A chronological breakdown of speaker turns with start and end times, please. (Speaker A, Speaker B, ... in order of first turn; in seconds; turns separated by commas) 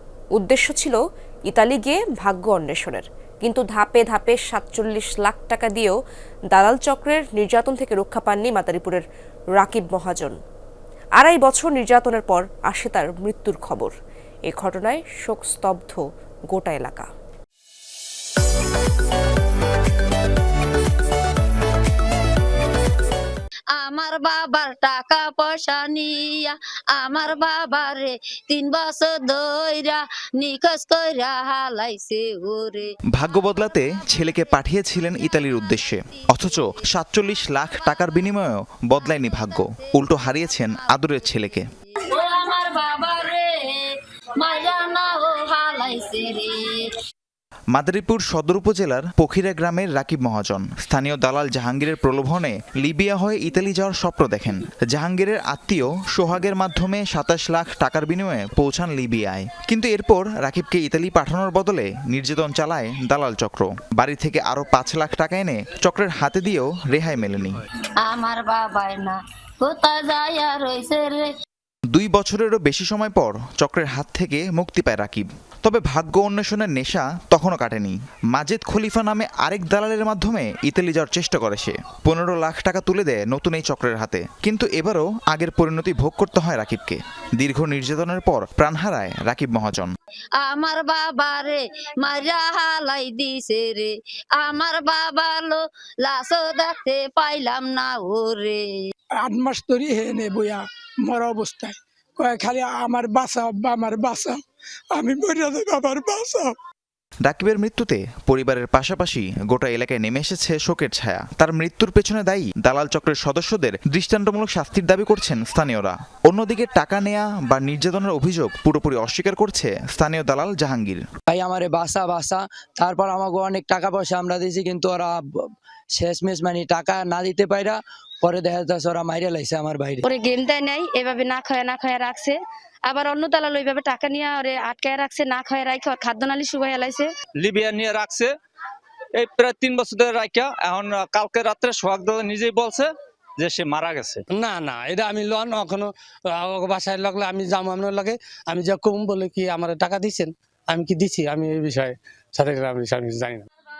Speaker A: 0.3-6.0, Speaker A: 6.5-9.0, Speaker A: 9.6-10.4, Speaker A: 11.2-13.9, Speaker A: 14.5-17.1, Speaker B: 23.7-33.0, Speaker C: 33.1-41.7, Speaker B: 39.2-40.2, Speaker B: 42.0-46.9, Speaker C: 47.7-67.6, Speaker B: 68.0-71.3, Speaker C: 71.9-90.0, Speaker B: 90.4-98.7, Speaker D: 99.2-104.4, Speaker D: 104.9-106.5, Speaker C: 107.2-121.0, Speaker E: 121.3-130.1, Speaker F: 130.1-132.3, Speaker F: 132.9-137.1, Speaker G: 137.4-138.3, Speaker G: 139.2-144.2, Speaker H: 144.3-153.5